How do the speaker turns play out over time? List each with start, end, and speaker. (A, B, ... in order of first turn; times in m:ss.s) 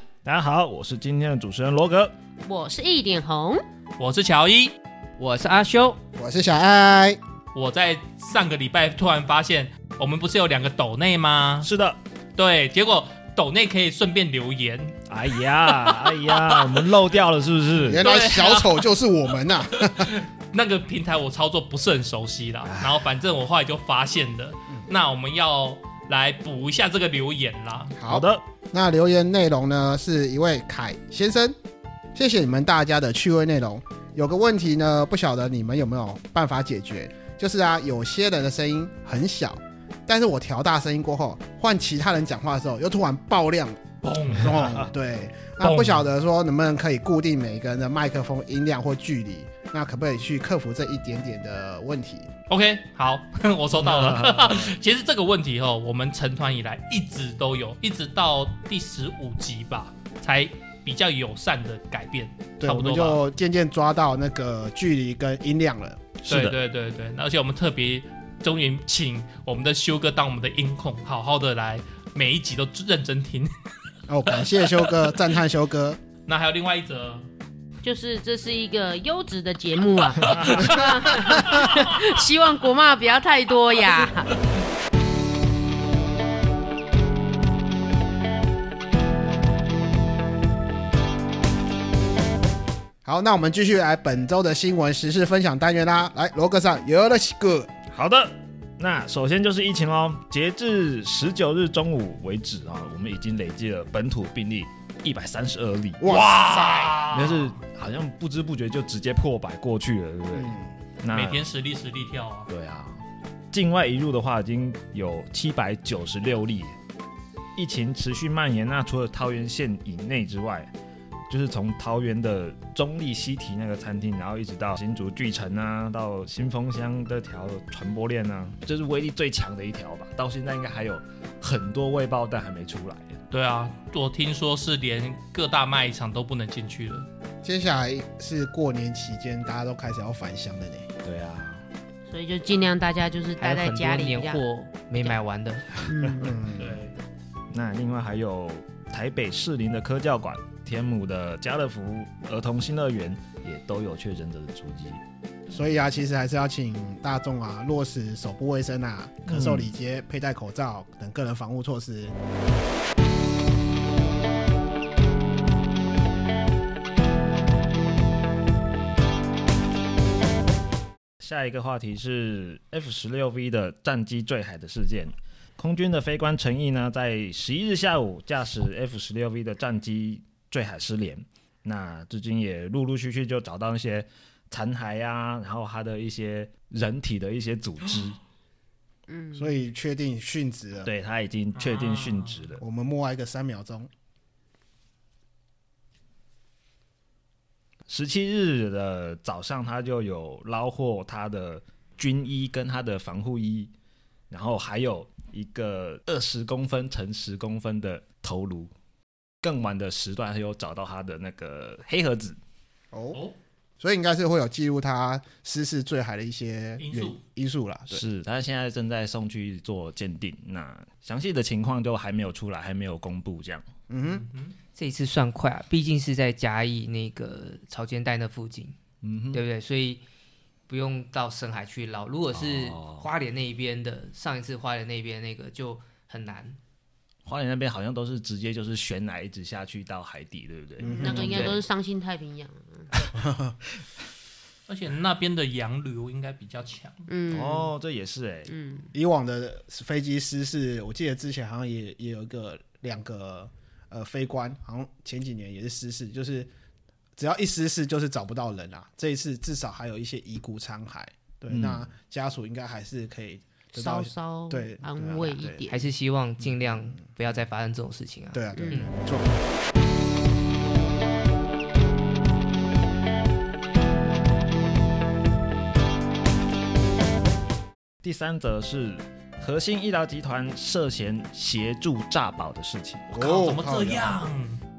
0:00.2-0:02.1 A
0:02.4-0:03.6 B
0:04.0-0:04.8 C
0:05.2-0:06.0 D
0:06.2-0:07.2 E
0:07.5-0:11.7 C
0:11.6-0:12.0 A
0:12.4-0:16.9 C
0:15.1-0:18.0 A
0:17.9-0:20.1 E
0:18.0-0:18.8 C
0:19.7-0:28.0 C
0:22.6-0:23.0 A
0:28.0-0:31.6 E
0:28.1-0:28.4 A
0:32.1-0:43.8 E
0:44.0-0:44.7 C
0:44.4-0:52.3 E
0:45.6-0:46.0 C
0:52.5-1:03.2 C
0:53.8-0:54.7 A
1:02.6-1:06.0 E
1:06.2-1:06.6 A
1:06.2-1:13.5 C
1:14.1-1:16.0 E
1:14.4-1:15.1 C
1:16.3-1:17.3 C
1:17.8-1:24.4 B
1:20.2-1:21.8 C
1:33.0-1:37.7 E
1:37.9-1:46.1 A
1:46.0-1:47.0 E
1:46.1-1:47.6 C
1:47.1-1:51.5 A
1:50.3-1:50.7 E
1:51.1-1:52.5 C
1:52.5-1:56.8 A
1:57.6-2:00.7 A
2:01.3-2:13.2 A
2:13.3-2:17.1 C
2:17.4-2:20.9 E
2:21.0-2:21.6 A
2:22.1-2:24.4 B
2:23.4-2:25.7 D
2:25.8-2:26.4 B
2:26.1-2:26.8 E
2:26.6-2:26.9 C
2:27.5-2:35.0 A
2:35.5-2:42.1 E
2:39.3-2:39.7 A
2:51.2-3:08.2 A
3:09.1-3:09.6 B
3:09.4-3:10.9 E
3:10.8-3:12.6 A
3:11.5-3:12.5 C
3:12.6-3:13.9 E
3:17.9-3:23.7 A
3:24.3-3:28.7 A
3:29.4-3:32.4 A
3:32.9-3:33.2 E
3:33.8-3:38.0 E
3:36.8-3:37.2 C
3:37.9-3:43.6 A
3:43.9-3:44.2 E
3:44.1-3:44.6 C
3:44.8-3:48.8 D
3:49.0-3:49.4 A
3:49.3-3:50.0 D
3:50.7-3:56.6 D
3:52.3-3:53.1 A
3:57.2-4:01.6 A
4:00.8-4:01.5 E
4:00.8-4:02.9 B
4:03.1-4:03.6 E
4:04.7-4:07.1 C
4:07.1-4:07.7 B
4:07.3-4:08.5 A
4:08.5-4:08.9 B
4:08.9-4:16.5 E
4:17.2-4:25.6 E
4:21.5-4:21.8 A
4:23.7-4:25.8 B
4:25.7-4:28.9 D
4:26.4-4:27.0 E
4:28.3-4:29.4 E
4:38.0-4:43.2 A
4:43.1-4:44.2 E
4:43.2-4:44.6 C